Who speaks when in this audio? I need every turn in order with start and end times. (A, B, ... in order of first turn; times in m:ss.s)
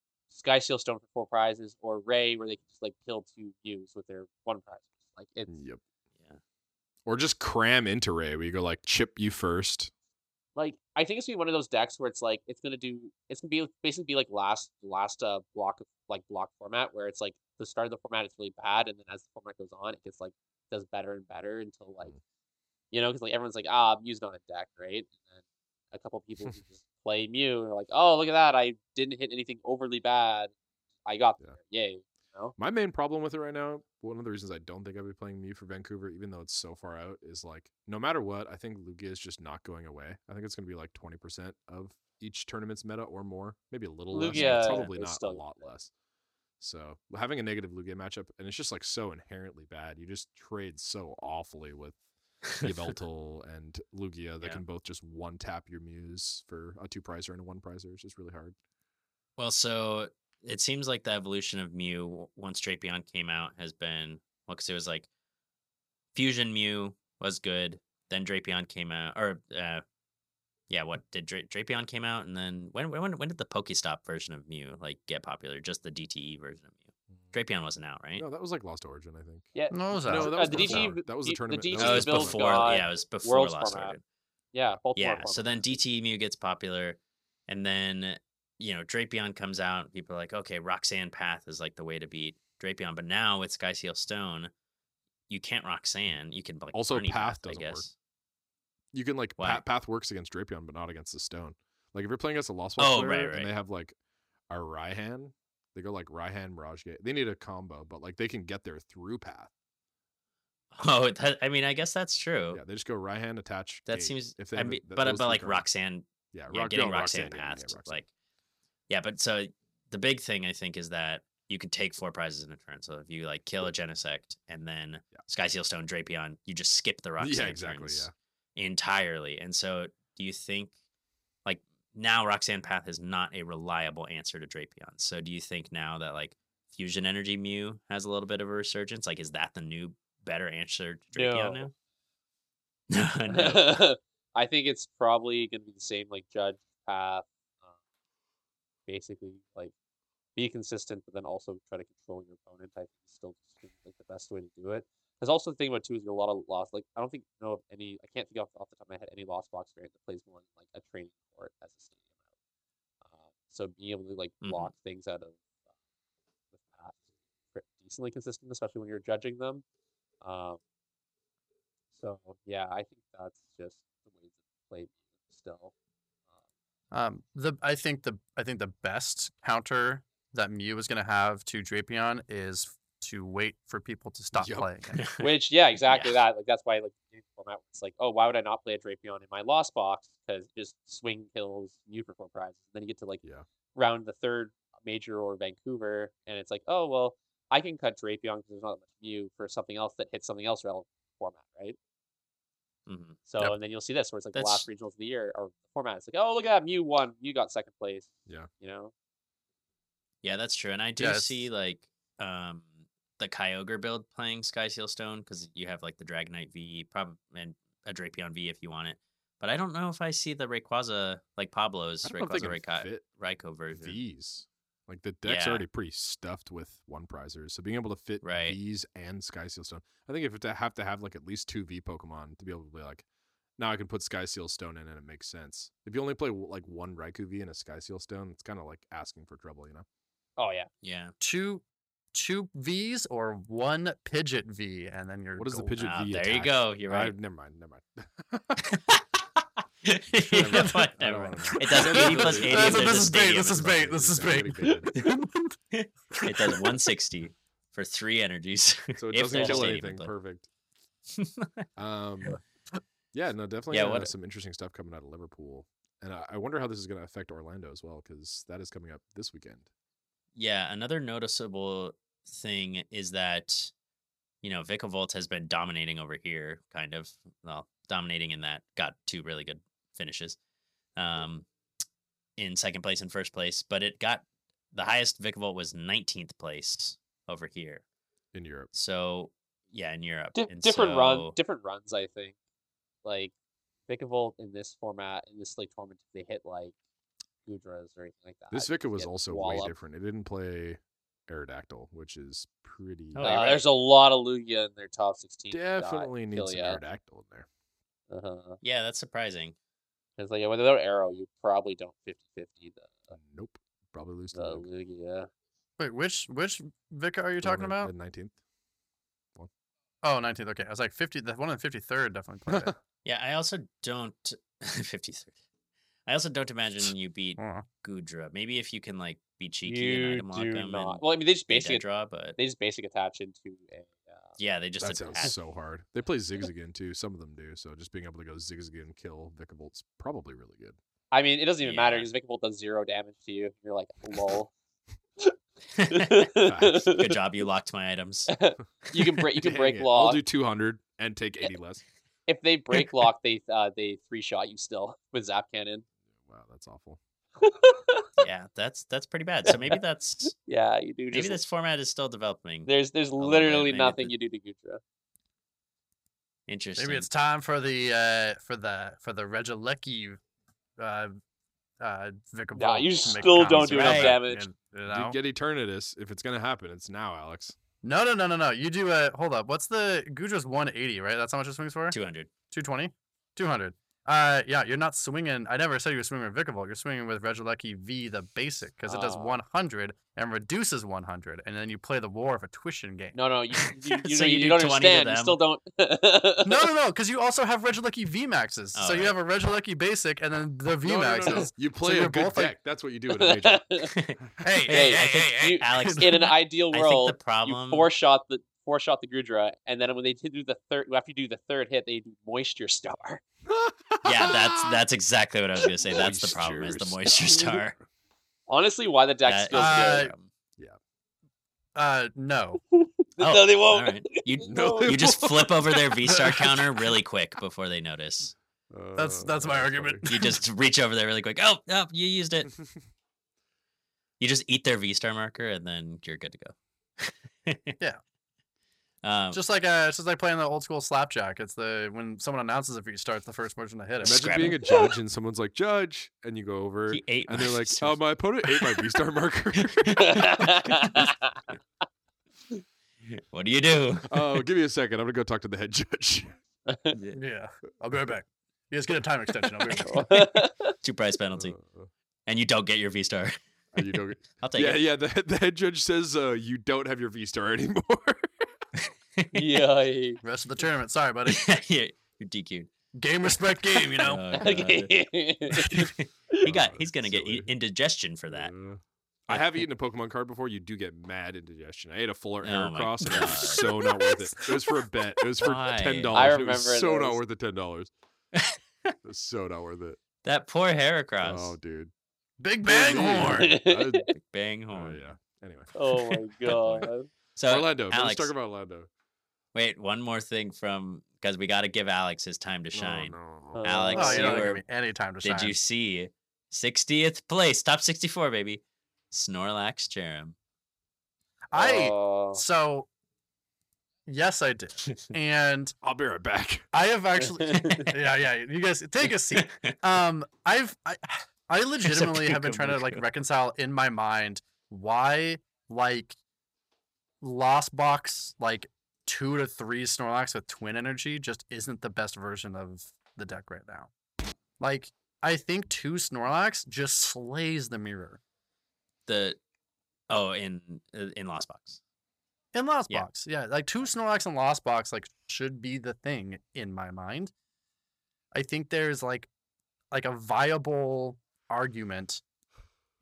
0:00.3-0:05.6 A
0:05.5-0:05.8 B
0:07.0-0:09.9 B
0:10.6-0:22.1 A
0:22.9-0:25.4 A
0:25.9-0:30.5 A
0:31.0-0:32.5 A
0:32.6-0:45.9 B
0:44.1-0:45.6 A
0:44.3-0:44.9 C
0:46.6-0:52.0 B
0:52.6-0:52.8 C
0:52.6-0:58.6 B
0:59.4-1:05.1 C
1:06.1-1:09.8 C
1:10.7-1:18.2 C
1:18.2-1:22.7 B
1:19.5-1:23.9 A
1:19.7-1:20.9 D
1:21.8-1:24.0 C
1:24.5-1:25.7 A
1:25.0-1:34.5 C
1:35.3-1:37.9 C
1:36.7-1:37.8 B
1:38.9-1:44.0 B
1:39.4-1:39.6 C
1:42.8-1:43.5 C
1:44.5-1:49.5 B
1:50.7-1:52.6 C
1:52.5-1:55.6 B
1:53.9-1:58.1 C
1:56.3-1:58.0 B
1:58.9-2:10.7 C
2:07.2-2:08.1 B
2:11.4-2:21.7 C
2:21.1-2:21.7 A
2:22.9-2:23.8 C
2:23.3-2:27.7 A
2:28.9-2:29.7 A
2:30.4-2:42.0 A
2:43.0-2:45.4 A
2:44.4-2:44.7 C
2:46.6-2:47.0 A
2:47.5-2:49.6 A
2:50.2-2:50.6 A
2:51.9-2:55.7 A
2:56.9-3:05.0 D
3:04.3-3:04.7 B
3:04.9-3:05.3 C
3:05.2-3:13.2 A
3:05.8-3:06.2 C
3:13.7-3:21.8 A
3:22.9-3:23.2 C
3:23.3-3:28.9 A
3:24.3-3:24.7 C
3:30.2-3:44.0 C
3:31.0-3:31.4 D
3:42.0-3:43.0 B
3:43.8-3:53.0 B
3:45.2-3:45.6 C
3:48.2-3:48.6 C
3:53.6-3:59.8 B
4:00.4-4:00.7 A
4:00.8-4:01.1 C
4:01.2-4:05.8 D
4:05.4-4:08.6 B
4:05.8-4:07.1 C
4:08.6-4:09.0 C
4:09.8-4:13.7 C
4:10.3-4:15.0 B
4:10.4-4:10.8 D
4:11.4-4:15.5 D
4:15.7-4:20.1 C
4:16.2-4:16.7 D
4:19.0-4:20.5 B
4:19.3-4:19.7 A
4:21.1-4:21.7 C
4:21.8-4:22.4 B
4:23.1-4:29.7 B
4:23.7-4:24.1 C
4:30.4-4:33.7 C
4:34.4-4:40.4 C
4:41.0-4:41.5 C
4:42.4-4:47.8 C
4:48.3-4:48.7 B
4:48.7-4:51.4 C
4:50.4-4:52.3 A
4:53.0-4:53.3 A
4:53.9-4:56.7 A
4:57.4-4:59.7 A
4:58.5-5:03.3 B
5:03.1-5:03.6 C
5:03.2-5:06.8 A
5:05.5-5:07.5 B
5:08.1-5:08.6 A
5:08.6-5:09.5 C
5:10.2-5:13.1 A
5:13.1-5:14.7 B
5:14.3-5:15.3 A
5:15.8-5:17.9 D
5:17.4-5:18.4 B
5:20.0-5:22.7 D
5:22.5-5:22.7 B
5:23.0-5:25.4 C
5:26.0-5:32.4 C
5:27.4-5:27.6 D
5:29.6-5:31.8 A
5:32.4-5:34.4 A
5:34.4-5:35.4 C
5:34.8-5:40.8 B
5:41.1-5:44.5 A
5:41.6-5:42.1 C
5:45.7-5:46.3 C
5:45.9-5:47.2 A
5:46.4-5:47.0 B
5:46.8-5:48.3 C
5:48.3-5:50.2 A
5:49.4-5:51.8 B
5:52.3-5:55.8 A
5:56.1-5:57.0 B
5:57.4-5:58.1 A
5:58.2-6:00.3 C
5:59.4-6:01.4 A
6:01.1-6:04.1 C
6:02.7-6:04.8 A
6:06.5-6:07.1 C
6:06.8-6:10.2 D
6:10.8-6:11.2 D
6:11.8-6:15.2 D
6:12.5-6:14.5 A
6:13.5-6:14.2 C
6:14.9-6:17.6 B
6:17.8-6:22.0 D
6:21.9-6:22.3 C
6:22.5-6:33.2 D
6:28.9-6:29.4 A
6:33.1-6:36.7 A
6:33.9-6:35.4 C
6:36.4-6:42.5 D
6:38.7-6:39.2 C
6:40.8-6:43.6 B
6:43.1-6:43.9 A
6:43.8-6:47.9 C
6:44.4-6:46.3 D
6:44.7-6:53.2 A
6:53.5-6:54.8 B
6:54.0-6:57.7 C
6:55.7-6:57.8 B
6:58.5-7:00.1 A
6:59.2-7:00.3 C
6:59.5-7:00.1 D
7:01.7-7:02.6 D
7:02.7-7:05.1 A
7:03.2-7:08.3 C
7:04.5-7:06.4 B
7:08.7-7:10.0 B
7:09.0-7:10.4 D
7:10.0-7:12.5 C
7:14.2-7:17.8 C
7:19.0-7:19.4 C
7:19.3-7:24.3 D
7:24.0-7:30.8 B
7:24.0-7:24.7 C
7:26.9-7:28.0 C
7:28.5-7:28.8 C
7:29.7-7:31.0 C
7:30.0-7:31.4 A
7:33.1-7:34.4 C
7:34.1-7:36.4 B
7:36.7-7:36.9 A
7:36.9-7:37.2 C
7:37.1-7:40.1 D
7:39.8-7:40.7 A
7:40.8-7:41.6 C
7:41.3-7:41.9 B
7:42.2-7:43.4 C
7:43.7-7:48.5 B
7:44.4-7:44.8 C
7:48.8-7:49.4 C
7:49.3-7:50.2 A
7:50.2-7:51.5 D
7:51.3-7:52.7 C
7:53.0-7:54.4 D
7:53.6-7:58.5 C
7:54.4-7:55.9 A
7:56.4-7:57.5 B
7:58.3-8:07.9 B
8:02.4-8:03.6 C
8:05.4-8:06.3 C
8:06.1-8:07.2 A
8:08.3-8:08.9 C
8:09.0-8:10.0 B
8:10.2-8:11.6 C
8:11.2-8:11.9 B
8:12.4-8:13.6 D
8:12.6-8:14.1 B
8:12.9-8:14.1 A
8:14.1-8:15.0 C
8:14.7-8:15.7 B
8:15.7-8:17.1 A
8:16.4-8:18.3 C
8:17.5-8:18.9 B
8:19.5-8:24.6 C
8:22.7-8:23.7 B
8:23.5-8:24.5 A
8:23.9-8:25.6 D
8:25.2-8:30.4 C
8:31.5-8:32.9 D
8:31.5-8:32.4 A
8:34.1-8:35.7 D
8:35.8-8:36.7 B
8:36.7-8:46.2 D
8:37.2-8:37.8 A
8:37.6-8:37.9 C
8:39.3-8:39.8 C
8:41.8-8:43.0 C
8:47.2-8:53.9 D
8:54.6-8:58.2 D
8:59.1-8:59.4 C
9:00.1-9:01.8 C
9:02.5-9:07.3 D
9:08.3-9:09.3 D
9:09.9-9:12.2 D